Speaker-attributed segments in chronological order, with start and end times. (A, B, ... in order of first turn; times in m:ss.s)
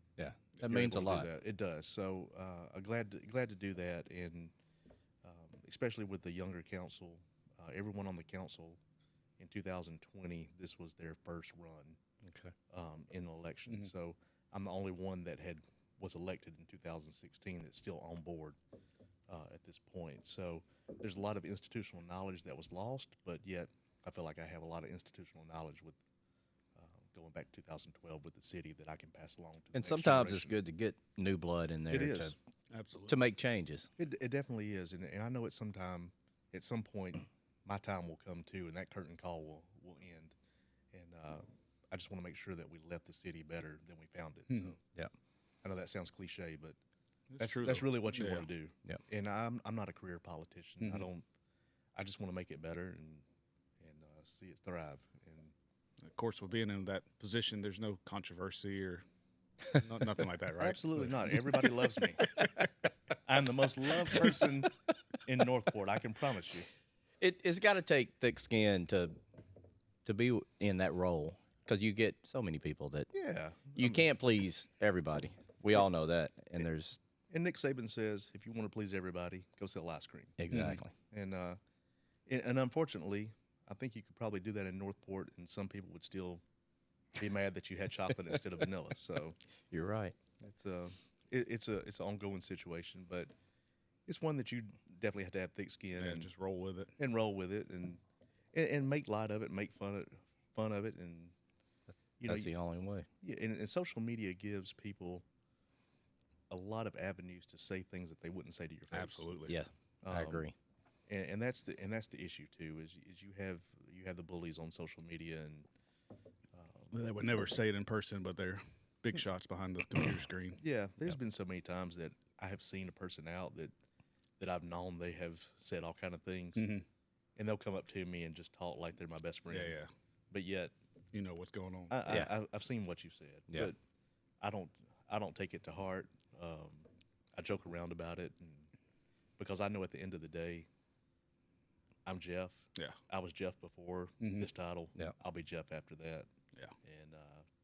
0:00.2-0:01.3 A
0:00.6-0:04.5 B
0:05.2-0:08.8 B
0:09.4-0:12.0 B
0:12.2-0:12.5 A
0:12.7-0:18.6 B
0:19.3-0:26.0 B
0:26.8-0:30.6 B
0:29.7-0:32.3 A
0:31.9-0:32.3 B
0:32.7-0:33.2 C
0:33.0-0:33.9 A
0:34.0-0:40.3 B
0:40.9-0:44.8 B
0:45.6-0:46.8 B
0:47.3-0:48.5 C
0:47.4-0:51.2 B
0:50.8-0:51.1 C
0:51.9-0:53.2 B
0:53.8-0:55.5 B
0:56.0-0:59.0 C
0:59.7-1:01.4 C
1:00.6-1:02.4 B
1:03.2-1:04.7 B
1:05.2-1:06.7 B
1:07.2-1:09.2 A
1:10.0-1:13.1 A
1:13.1-1:14.1 B
1:13.8-1:17.0 A
1:17.3-1:21.6 B
1:20.4-1:20.9 A
1:20.5-1:20.8 C
1:22.3-1:26.4 B
1:27.2-1:29.4 B
1:29.7-1:30.1 A
1:30.4-1:33.3 B
1:34.1-1:36.3 B
1:36.0-1:36.9 C
1:37.0-1:38.0 B
1:38.5-1:41.3 B
1:41.9-1:43.1 A
1:42.2-1:42.5 B
1:43.2-1:45.2 B
1:46.5-1:49.3 B
1:48.9-1:49.5 C
1:49.5-1:50.5 A
1:50.0-1:50.5 B
1:51.1-1:55.7 B
1:56.5-1:56.9 B
1:56.9-2:01.1 C
2:00.6-2:03.7 B
2:04.4-2:06.7 B
2:06.6-2:06.8 C
2:07.4-2:09.8 B
2:09.5-2:09.9 C
2:10.3-2:10.7 B
2:11.1-2:12.0 C
2:11.9-2:13.8 B
2:14.4-2:18.7 B
2:19.4-2:20.7 B
2:22.0-2:26.3 B
2:24.2-2:24.5 C
2:26.8-2:27.4 B